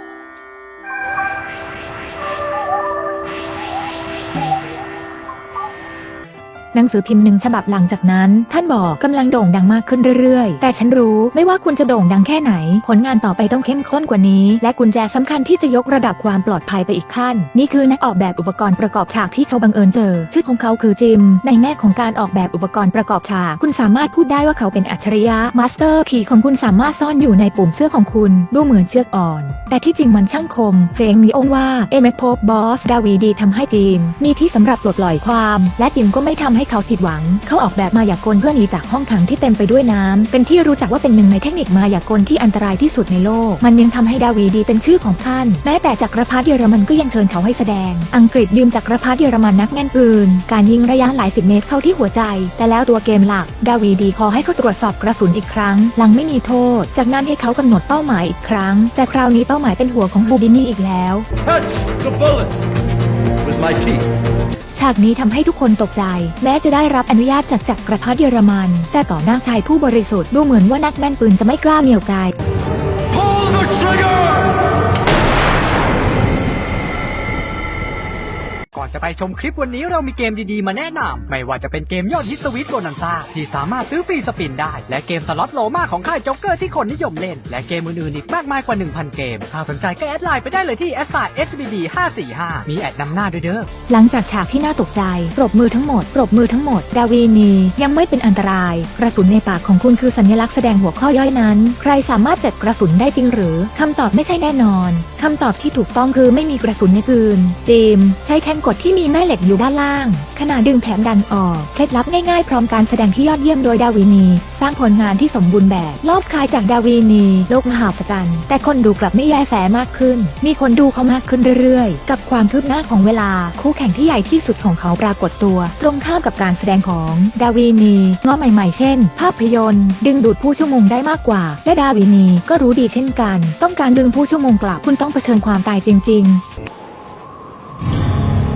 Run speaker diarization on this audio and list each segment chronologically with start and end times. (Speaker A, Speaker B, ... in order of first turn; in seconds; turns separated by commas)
Speaker A: 6.7-61.2, Speaker B: 62.0-62.5, Speaker B: 63.4-64.0, Speaker A: 64.7-72.3, Speaker B: 73.3-74.2, Speaker C: 78.7-93.7, Speaker A: 93.9-136.4